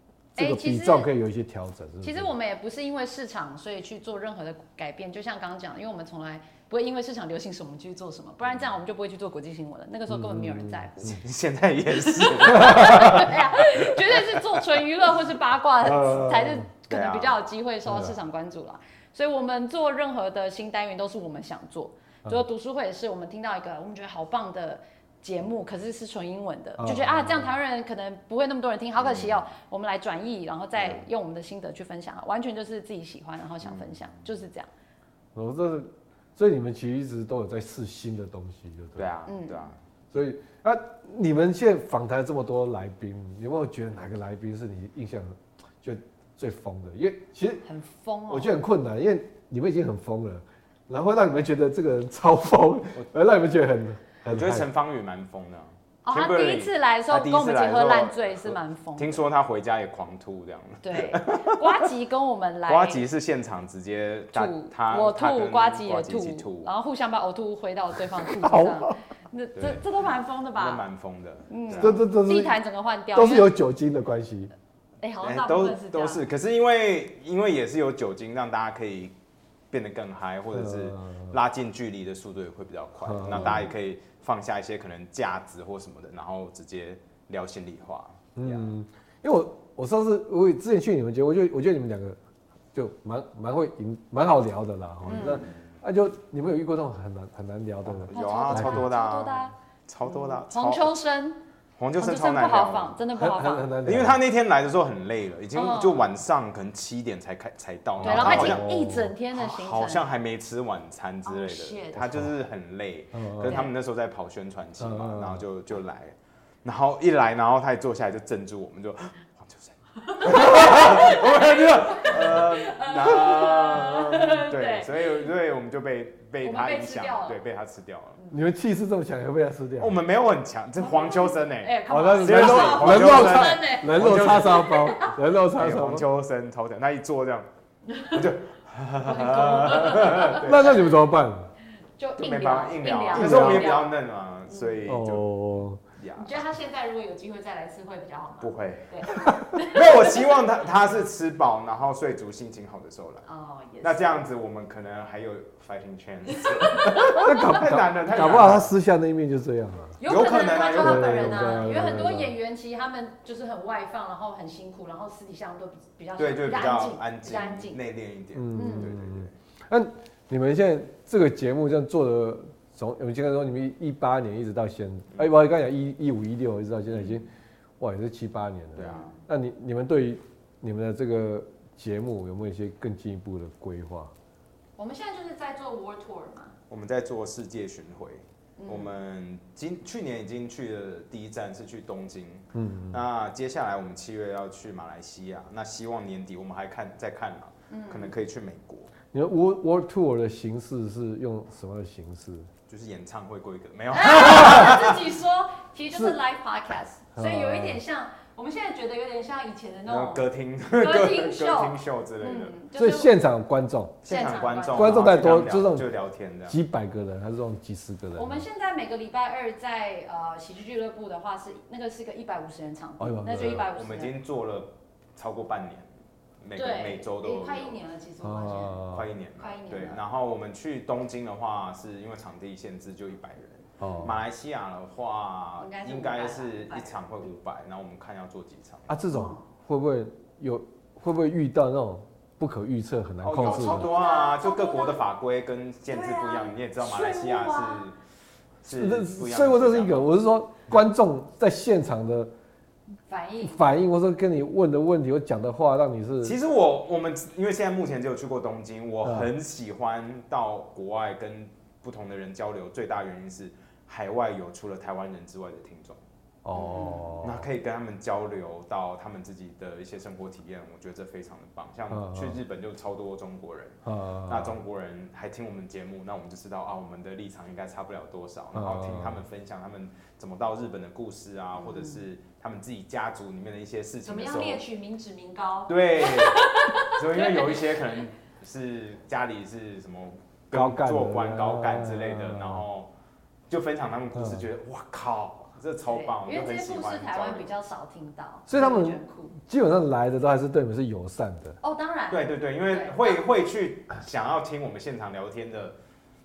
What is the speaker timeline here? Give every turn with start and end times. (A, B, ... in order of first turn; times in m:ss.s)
0:00.3-0:02.3 A
0:00.4-0:01.1 B
0:02.0-0:11.2 B
0:10.1-0:10.9 A
0:11.0-0:14.6 C
0:12.0-0:34.7 B
0:12.7-0:13.0 A
0:15.8-0:16.7 A
0:16.9-0:17.4 C
0:17.8-0:18.1 A
0:26.8-0:27.5 A
0:29.0-0:29.4 C
0:33.6-0:33.9 C
0:35.3-0:39.1 A
0:39.0-0:39.8 C
0:39.2-0:39.7 B
0:40.1-0:47.6 A
0:47.6-0:48.5 B
0:48.3-0:54.7 A
0:54.2-1:01.8 C
0:56.0-0:59.2 B
1:00.8-1:03.0 B
1:02.6-1:06.7 C
1:04.3-1:10.8 B
1:08.3-1:08.9 A
1:09.5-1:12.0 C
1:11.5-1:13.5 B
1:11.7-1:12.6 A
1:13.1-1:14.5 A
1:15.0-1:16.2 B
1:15.2-1:19.1 C
1:19.7-1:28.7 C
1:20.5-1:21.4 A
1:23.0-1:23.7 A
1:28.4-1:32.2 A
1:32.7-1:38.9 A
1:35.0-1:35.6 C
1:35.1-1:35.4 B
1:37.8-1:41.0 C
1:38.1-1:39.5 B
1:40.0-1:41.4 B
1:41.8-1:43.0 C
1:42.0-1:43.7 B
1:43.1-1:44.2 A
1:43.8-1:48.7 C
1:45.5-1:46.1 B
1:48.0-1:49.1 A
1:48.0-1:50.1 B
1:49.3-2:08.2 C
1:51.2-1:52.1 B
1:52.0-1:52.3 A
1:53.1-1:53.6 A
1:53.4-1:53.7 B
1:54.8-1:55.4 A
2:00.0-2:05.3 B
2:06.4-2:07.4 B
2:08.3-2:10.0 A
2:09.8-2:14.9 C
2:10.8-2:15.1 B
2:11.9-2:16.0 A
2:15.6-2:17.5 C
2:17.9-2:18.3 B
2:18.0-2:20.8 C
2:19.0-2:20.8 B
2:20.3-2:21.5 A
2:22.0-2:23.9 B
2:22.2-2:25.3 C
2:23.1-2:23.8 A
2:24.8-2:25.8 A
2:26.0-2:26.4 C
2:26.2-2:30.4 B
2:28.4-2:33.2 C
2:33.2-2:34.2 B
2:33.8-2:38.7 C
2:36.4-2:37.6 B
2:37.1-2:40.0 A
2:40.0-2:47.8 B
2:40.0-2:41.7 C
2:40.8-2:42.3 A
2:46.2-2:49.3 C
2:48.3-2:57.3 A
2:48.5-2:48.9 B
2:56.9-2:57.2 C
2:57.8-3:04.1 A
2:58.7-2:59.1 C
2:58.8-2:59.1 B
3:04.8-3:06.6 B
3:06.7-3:18.9 C
3:08.6-3:08.9 B
3:12.5-3:13.0 A
3:17.7-3:18.1 B
3:19.1-3:22.5 A
3:22.7-3:25.0 C
3:23.9-3:30.2 B
3:25.9-3:26.2 A
3:27.2-3:27.8 A
3:29.9-3:32.5 C
3:30.8-3:33.1 B
3:32.7-3:34.0 A
3:34.0-3:36.6 C
3:34.1-3:35.1 B
3:34.7-3:35.9 A
3:36.5-3:38.4 A
3:38.1-3:44.1 B
3:43.0-3:43.6 A
3:43.3-3:45.9 C
3:46.4-3:47.8 C
3:46.6-3:50.0 B
3:48.2-3:49.1 A
3:48.9-3:59.0 C
3:53.8-3:54.2 A
3:55.6-3:57.0 B
3:58.9-4:03.9 A
3:59.1-3:59.4 B
4:03.2-4:08.0 C
4:03.4-4:05.0 B
4:05.9-4:07.8 B
4:08.6-4:10.1 C
4:08.6-4:12.3 A
4:13.1-4:13.6 B
4:13.4-4:16.4 A
4:16.2-4:26.0 C
4:19.0-4:19.3 A
4:26.4-4:27.4 A
4:26.5-4:27.1 B
4:27.2-4:44.6 C
4:31.9-4:32.4 A
4:33.8-4:34.6 A
4:38.5-4:39.2 A
4:41.5-4:42.0 B
4:44.0-4:48.0 B
4:45.7-4:52.9 C
4:50.5-4:52.6 A
4:53.5-4:57.5 C
4:54.1-4:54.5 A
4:55.8-4:59.3 B
4:58.5-5:01.6 A
5:01.6-5:03.2 B
5:02.1-5:05.8 C